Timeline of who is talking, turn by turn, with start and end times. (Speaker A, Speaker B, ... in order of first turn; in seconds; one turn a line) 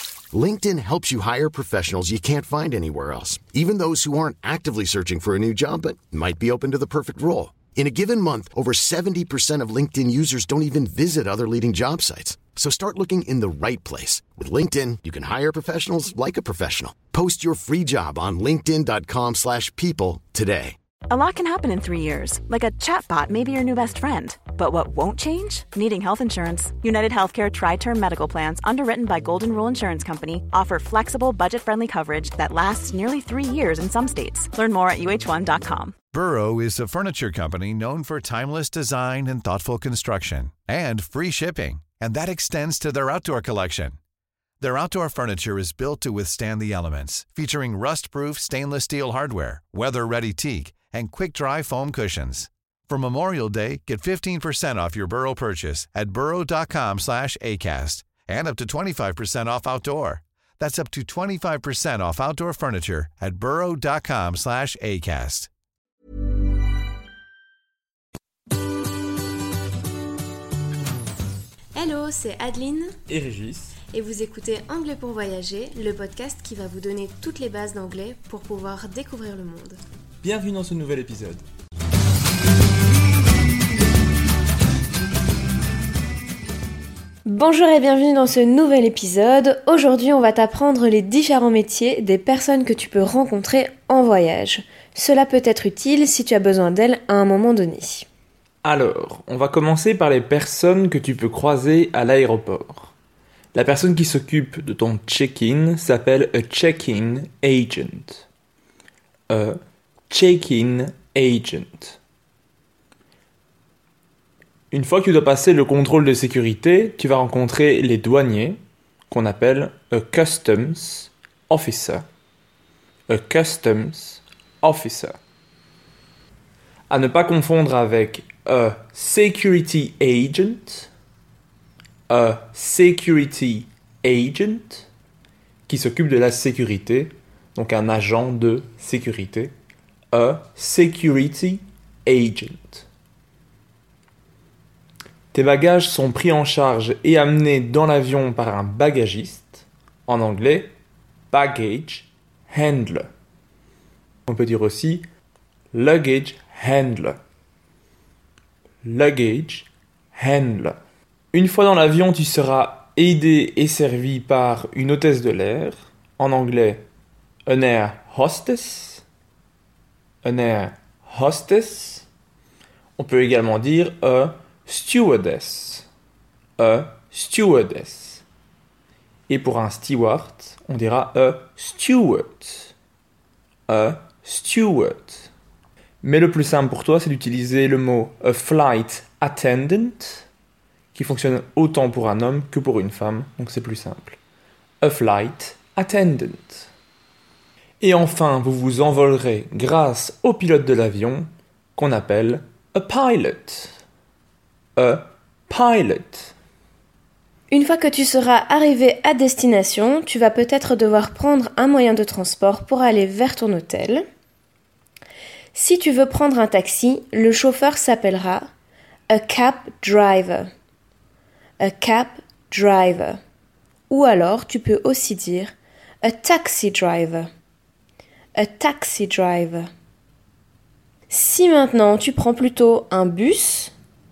Speaker A: 0.3-20.8
Speaker B: 21.1-36.0
Speaker C: 36.1-44.0
Speaker C: 44.6-65.5
Speaker D: 71.8-73.0
Speaker E: 73.1-73.8
Speaker D: 73.9-79.8
Speaker E: 80.2-81.4
Speaker D: 87.3-98.1
Speaker E: 98.6-102.9
Speaker E: 103.5-108.2
Speaker E: 109.3-109.6
Speaker E: 110.1-112.0
Speaker E: 114.7-118.6
Speaker E: 119.1-122.0
Speaker E: 123.1-125.1
Speaker E: 126.9-130.9
Speaker E: 132.1-134.9
Speaker E: 135.7-139.5
Speaker E: 140.1-142.9
Speaker E: 145.3-150.7
Speaker E: 151.3-153.1
Speaker E: 154.3-155.0
Speaker E: 155.7-157.2
Speaker E: 158.8-160.8
Speaker E: 161.3-166.8
Speaker E: 167.5-169.0
Speaker E: 170.2-172.1
Speaker E: 173.0-175.9
Speaker E: 176.6-178.2
Speaker E: 179.3-182.7
Speaker E: 183.7-185.3
Speaker E: 186.0-190.3
Speaker E: 190.9-194.2
Speaker E: 194.8-196.7
Speaker E: 197.8-203.8
Speaker E: 204.8-206.3
Speaker D: 207.5-214.0
Speaker D: 215.5-218.5
Speaker D: 219.1-220.5
Speaker D: 221.6-223.2
Speaker D: 223.9-227.3
Speaker D: 228.3-229.7
Speaker D: 231.1-233.7